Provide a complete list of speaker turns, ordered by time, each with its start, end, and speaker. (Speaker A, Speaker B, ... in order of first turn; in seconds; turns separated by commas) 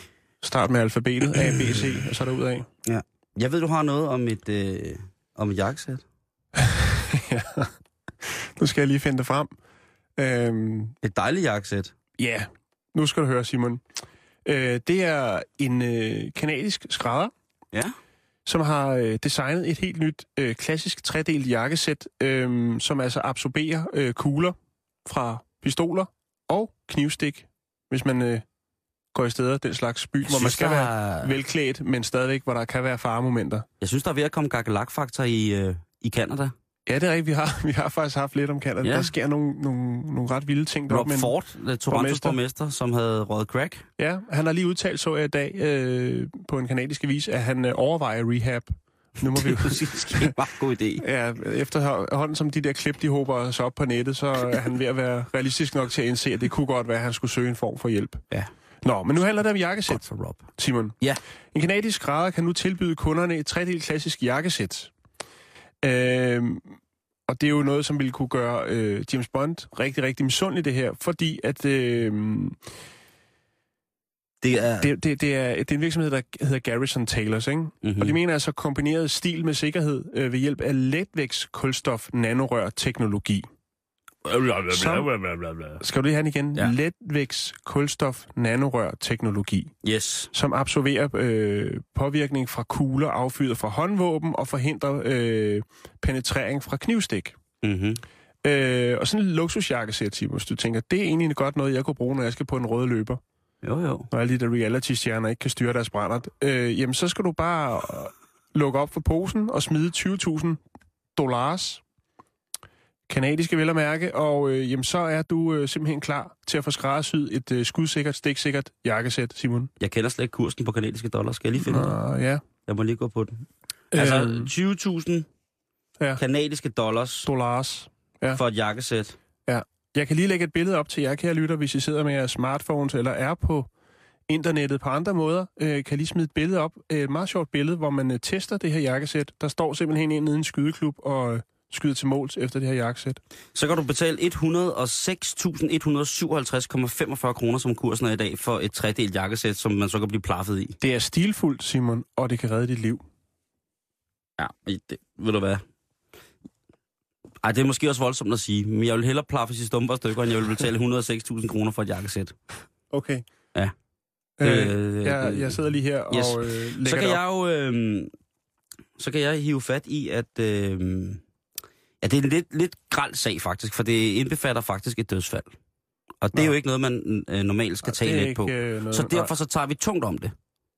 Speaker A: 0.4-2.7, Speaker B: 1.4-1.9, Speaker B: 2.8-6.0, Speaker A: 6.6-7.7, Speaker A: 8.2-9.5, Speaker A: 10.2-10.9, Speaker B: 11.0-11.9, Speaker A: 12.2-13.8, Speaker A: 14.4-17.3, Speaker A: 18.4-28.4, Speaker A: 29.1-33.6, Speaker B: 30.2-31.3, Speaker B: 33.8-36.5, Speaker A: 36.9-41.3, Speaker B: 38.8-39.1, Speaker B: 40.9-43.9, Speaker A: 41.9-42.4, Speaker A: 44.0-50.3, Speaker B: 49.2-51.0, Speaker A: 51.0-58.2, Speaker A: 58.8-61.0, Speaker B: 59.9-60.5, Speaker A: 61.5-64.9, Speaker A: 65.8-66.7, Speaker A: 67.3-72.6, Speaker B: 74.4-74.9, Speaker A: 74.8-83.5, Speaker B: 77.8-78.2, Speaker B: 84.2-85.8, Speaker A: 84.7-85.1, Speaker A: 85.8-89.7, Speaker B: 89.8-90.3, Speaker A: 90.3-97.4, Speaker B: 97.6-98.0, Speaker A: 98.4-103.2, Speaker B: 103.6-104.1, Speaker A: 104.1-110.6, Speaker A: 111.2-111.8, Speaker A: 113.1-119.7, Speaker B: 119.8-121.9, Speaker A: 121.6-122.4, Speaker B: 122.7-125.3, Speaker A: 123.9-124.5, Speaker B: 126.2-127.3, Speaker A: 127.2-128.4, Speaker B: 128.3-129.2, Speaker A: 129.5-133.7, Speaker A: 134.3-143.2, Speaker B: 143.5-150.8, Speaker A: 150.8-153.0, Speaker B: 154.4-155.6, Speaker B: 157.4-162.3, Speaker A: 162.9-163.2, Speaker A: 164.4-167.2, Speaker B: 164.4-165.6, Speaker B: 166.1-168.1, Speaker B: 169.0-171.2, Speaker B: 172.0-175.5, Speaker B: 176.2-180.3, Speaker A: 177.8-179.3